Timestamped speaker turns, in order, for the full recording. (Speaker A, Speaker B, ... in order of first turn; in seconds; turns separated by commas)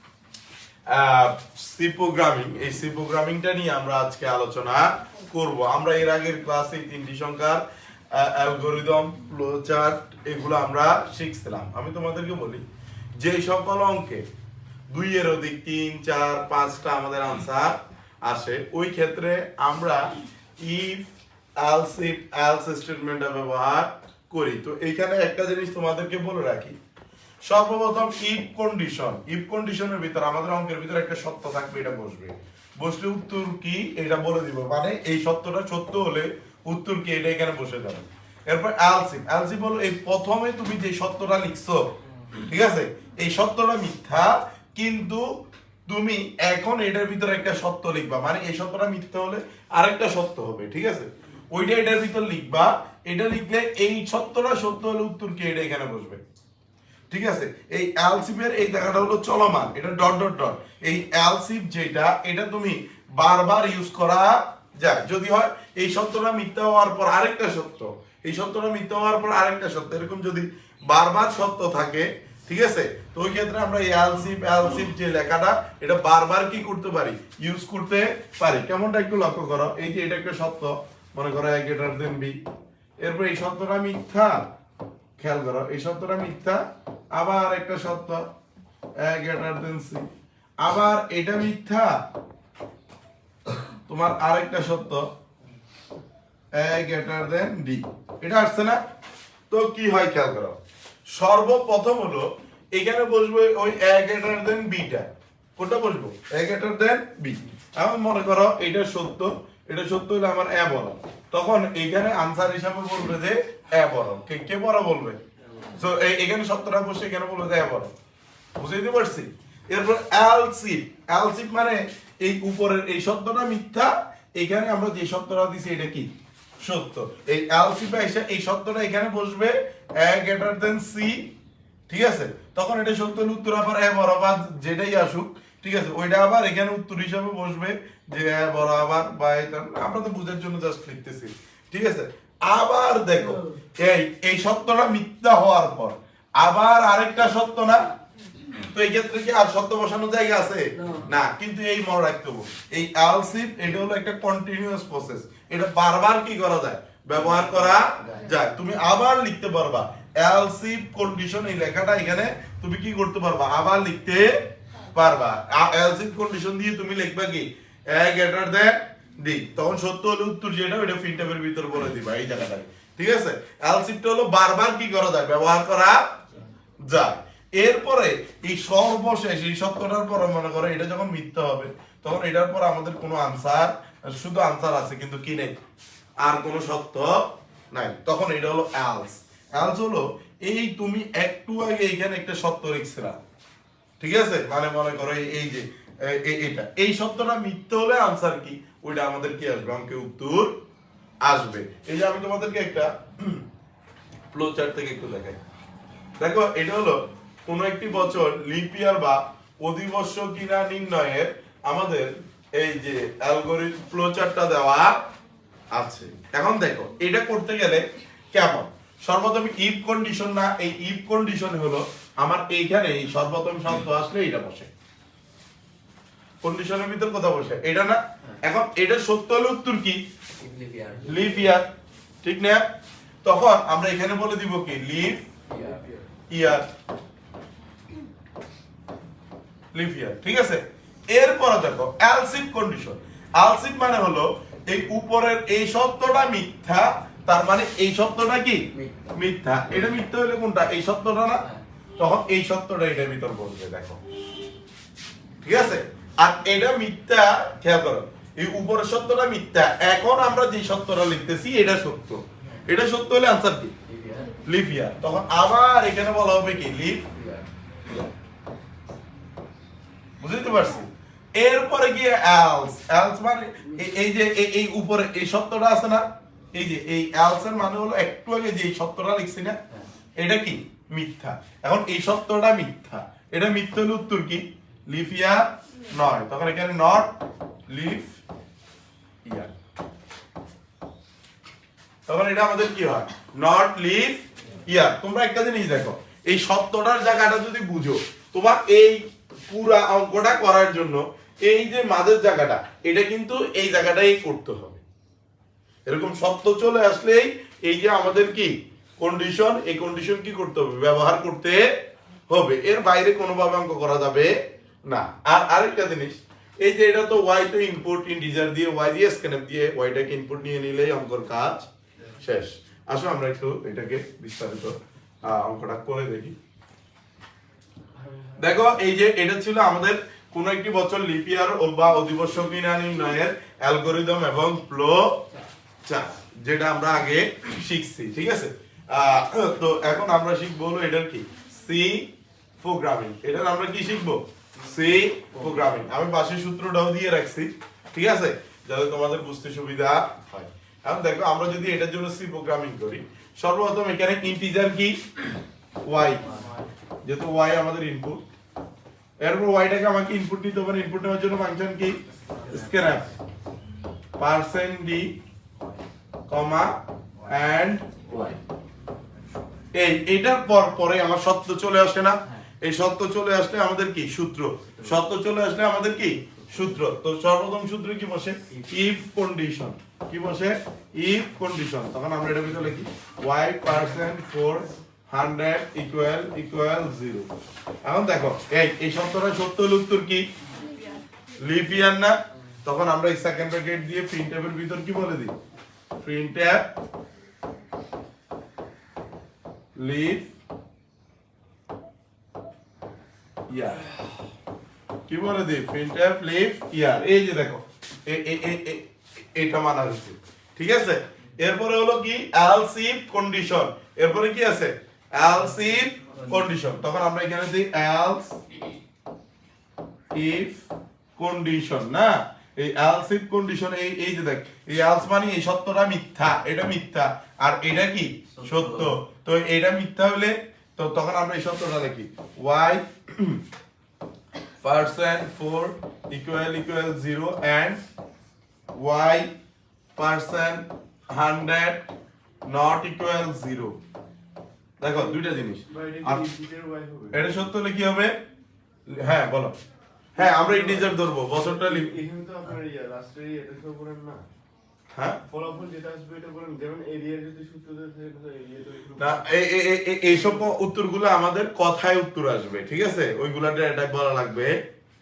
Speaker A: 0.9-12.6, Speaker A: 13.2-14.2, Speaker A: 14.9-21.1, Speaker A: 21.6-26.8, Speaker A: 27.4-45.2, Speaker A: 45.9-56.2, Speaker A: 57.1-82.4, Speaker A: 83.0-84.5, Speaker A: 85.2-86.6, Speaker A: 87.1-88.2, Speaker A: 89.0-92.0, Speaker A: 93.5-95.1, Speaker A: 96.5-98.8, Speaker A: 99.5-100.6, Speaker A: 101.1-115.2, Speaker A: 115.7-117.9, Speaker A: 118.6-131.3, Speaker A: 131.9-147.9, Speaker B: 143.2-143.6, Speaker A: 148.5-176.0, Speaker B: 150.7-151.1, Speaker B: 157.2-158.2, Speaker A: 176.8-185.6, Speaker A: 186.2-193.2, Speaker A: 194.0-200.5, Speaker A: 201.2-203.4, Speaker A: 204.3-205.4, Speaker A: 206.2-214.9, Speaker A: 215.7-224.7, Speaker A: 226.4-230.0, Speaker B: 230.4-231.6, Speaker A: 231.1-231.7, Speaker A: 232.2-232.6, Speaker A: 233.2-235.2, Speaker B: 235.5-236.1, Speaker A: 236.3-236.7, Speaker A: 239.7-248.6, Speaker B: 248.7-249.0, Speaker A: 249.2-251.4, Speaker A: 252.0-254.0, Speaker A: 255.4-263.7, Speaker B: 263.9-264.4, Speaker A: 264.4-267.1, Speaker B: 267.1-267.5, Speaker A: 270.2-279.6, Speaker B: 273.6-273.9, Speaker A: 280.2-287.1, Speaker A: 287.7-288.2, Speaker A: 289.2-289.5, Speaker A: 292.1-304.8, Speaker A: 305.9-311.6, Speaker A: 312.3-314.3, Speaker A: 314.9-321.7, Speaker A: 322.2-326.4, Speaker B: 328.0-328.3, Speaker A: 328.4-335.2, Speaker A: 335.8-342.1, Speaker A: 342.6-355.2, Speaker B: 344.7-345.8, Speaker A: 355.8-356.2, Speaker B: 356.0-356.6, Speaker A: 357.0-358.2, Speaker A: 359.2-363.1, Speaker B: 362.2-363.1, Speaker A: 364.2-365.1, Speaker A: 366.3-366.8, Speaker A: 367.3-368.4, Speaker A: 369.7-387.3, Speaker B: 374.7-375.0, Speaker B: 376.2-376.7, Speaker A: 387.8-390.2, Speaker A: 391.4-395.3, Speaker A: 396.0-396.7, Speaker A: 399.8-400.3, Speaker A: 403.5-403.9, Speaker A: 405.1-418.4, Speaker B: 415.8-416.5, Speaker A: 420.1-420.6, Speaker A: 421.2-433.4, Speaker B: 428.3-429.0, Speaker A: 434.6-437.8, Speaker A: 438.7-439.3, Speaker A: 439.9-441.8, Speaker A: 442.5-443.8, Speaker A: 444.8-446.2, Speaker B: 445.7-447.2, Speaker A: 447.1-448.1, Speaker A: 448.9-449.6, Speaker A: 450.1-452.0, Speaker B: 450.2-450.9, Speaker B: 451.6-454.2, Speaker A: 454.9-455.2, Speaker B: 455.3-459.2, Speaker A: 459.0-464.6